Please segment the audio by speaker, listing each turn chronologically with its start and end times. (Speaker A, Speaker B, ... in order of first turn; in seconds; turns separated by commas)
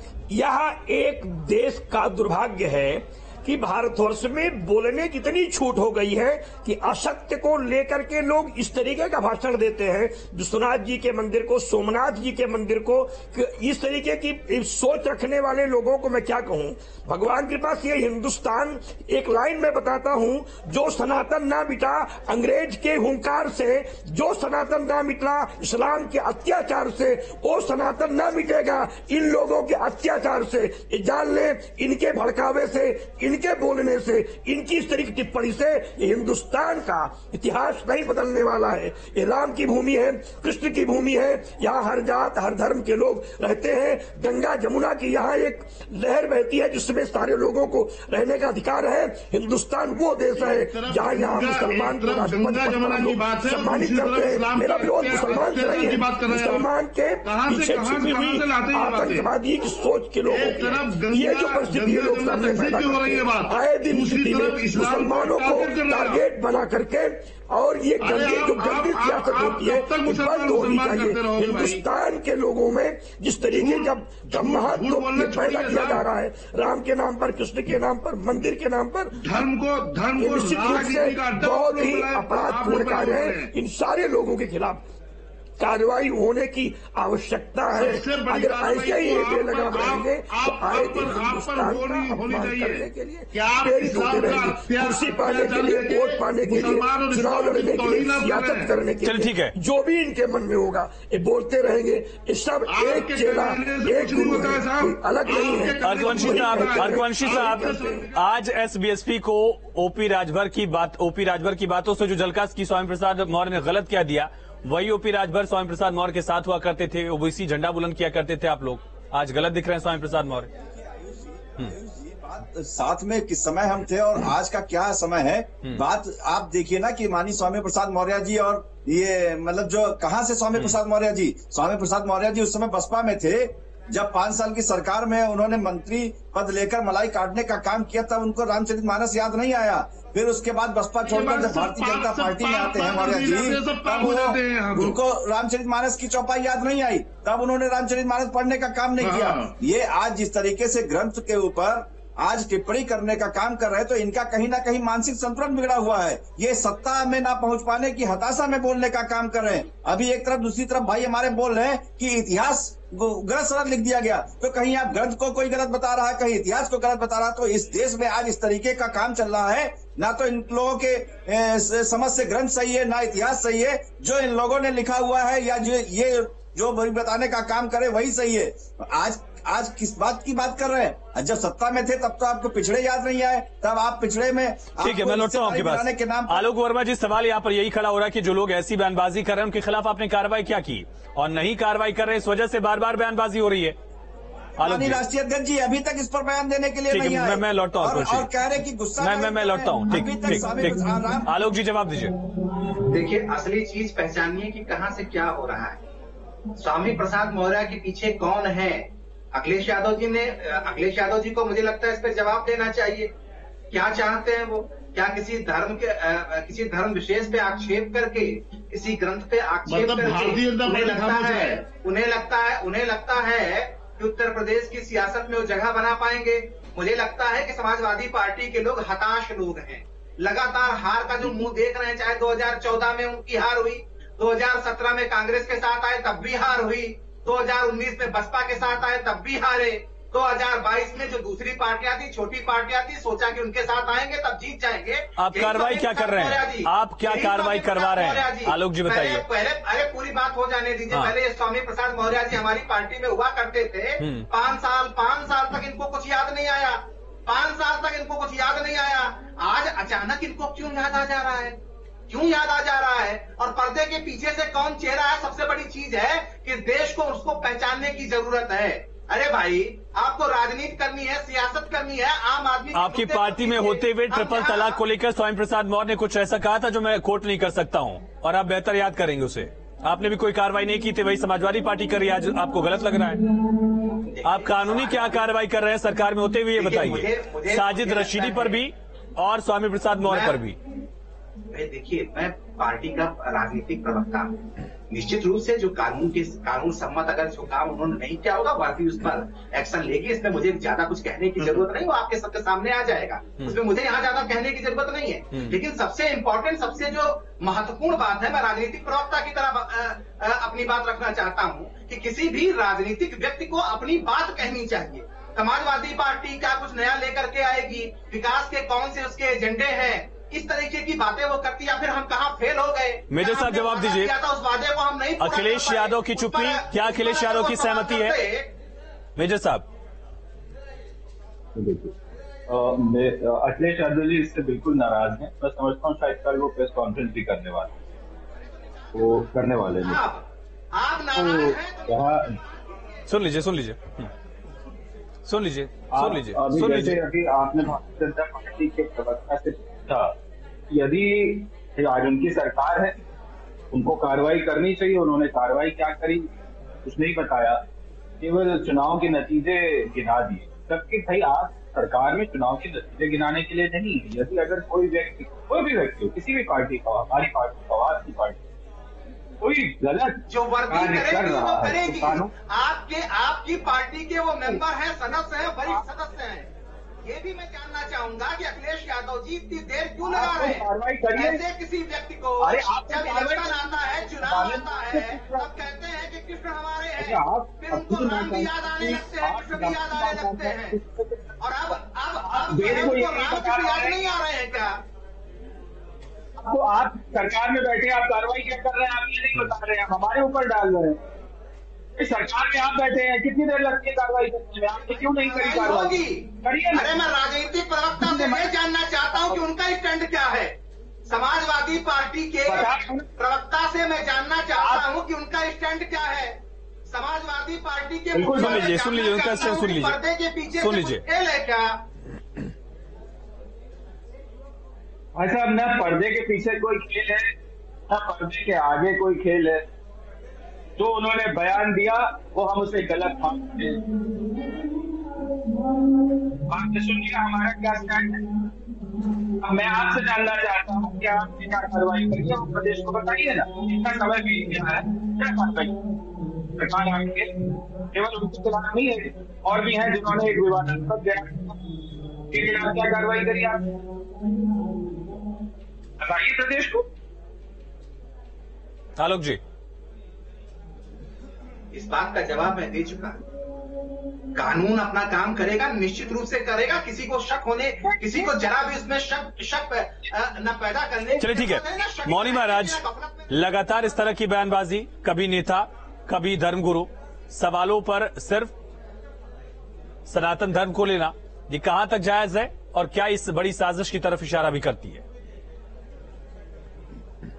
Speaker A: 0.3-79.5, Speaker B: 50.3-56.7, Speaker B: 57.2-59.3, Speaker B: 60.2-66.2, Speaker B: 68.0-71.8, Speaker B: 73.5-76.0, Speaker B: 79.2-83.5, Speaker A: 80.2-84.8, Speaker A: 85.6-108.0, Speaker B: 87.7-98.7, Speaker C: 99.0-99.5, Speaker B: 102.7-108.2, Speaker C: 105.8-120.5, Speaker D: 120.6-186.4, Speaker B: 141.0-145.0, Speaker B: 149.0-149.5, Speaker C: 184.8-193.8, Speaker D: 194.6-201.3, Speaker C: 194.6-195.0, Speaker C: 196.9-198.3, Speaker C: 199.0-202.1, Speaker E: 202.8-205.8, Speaker E: 206.6-213.1, Speaker E: 213.7-261.6, Speaker B: 219.7-221.6, Speaker C: 245.2-249.2, Speaker C: 254.0-254.3, Speaker E: 262.1-274.8, Speaker C: 272.7-283.2, Speaker E: 284.0-285.2, Speaker C: 284.2-290.6, Speaker E: 286.6-288.6, Speaker E: 290.1-290.4, Speaker E: 291.5-294.3, Speaker E: 294.9-328.5, Speaker C: 323.1-324.1, Speaker C: 325.2-328.2, Speaker C: 329.2-329.6, Speaker F: 331.5-331.9, Speaker F: 332.5-337.7, Speaker F: 338.9-340.0, Speaker E: 339.8-342.1, Speaker F: 341.1-342.4, Speaker C: 343.1-344.1, Speaker C: 345.2-347.0, Speaker F: 345.9-350.1, Speaker F: 350.7-353.0, Speaker F: 353.7-356.3, Speaker F: 356.8-357.6, Speaker F: 358.2-368.4, Speaker F: 369.4-372.3, Speaker E: 370.3-376.5, Speaker E: 377.0-390.8, Speaker F: 380.0-381.4, Speaker F: 382.4-385.5, Speaker F: 387.0-391.3, Speaker E: 391.4-394.8, Speaker F: 392.2-394.2, Speaker F: 396.4-401.0, Speaker F: 402.0-407.0, Speaker E: 405.1-410.5, Speaker F: 408.0-408.5, Speaker F: 409.1-409.4, Speaker E: 411.1-421.8, Speaker F: 412.4-413.1, Speaker F: 414.6-414.8, Speaker F: 418.1-418.9, Speaker C: 418.3-420.0, Speaker C: 420.6-421.0, Speaker F: 425.1-427.3, Speaker F: 427.9-429.6, Speaker F: 430.8-433.9, Speaker F: 436.5-438.4, Speaker F: 439.4-445.8, Speaker F: 446.5-453.7, Speaker F: 456.0-456.9, Speaker C: 459.0-459.4, Speaker E: 461.7-463.2, Speaker E: 464.3-473.5, Speaker C: 471.2-478.5, Speaker C: 480.1-485.0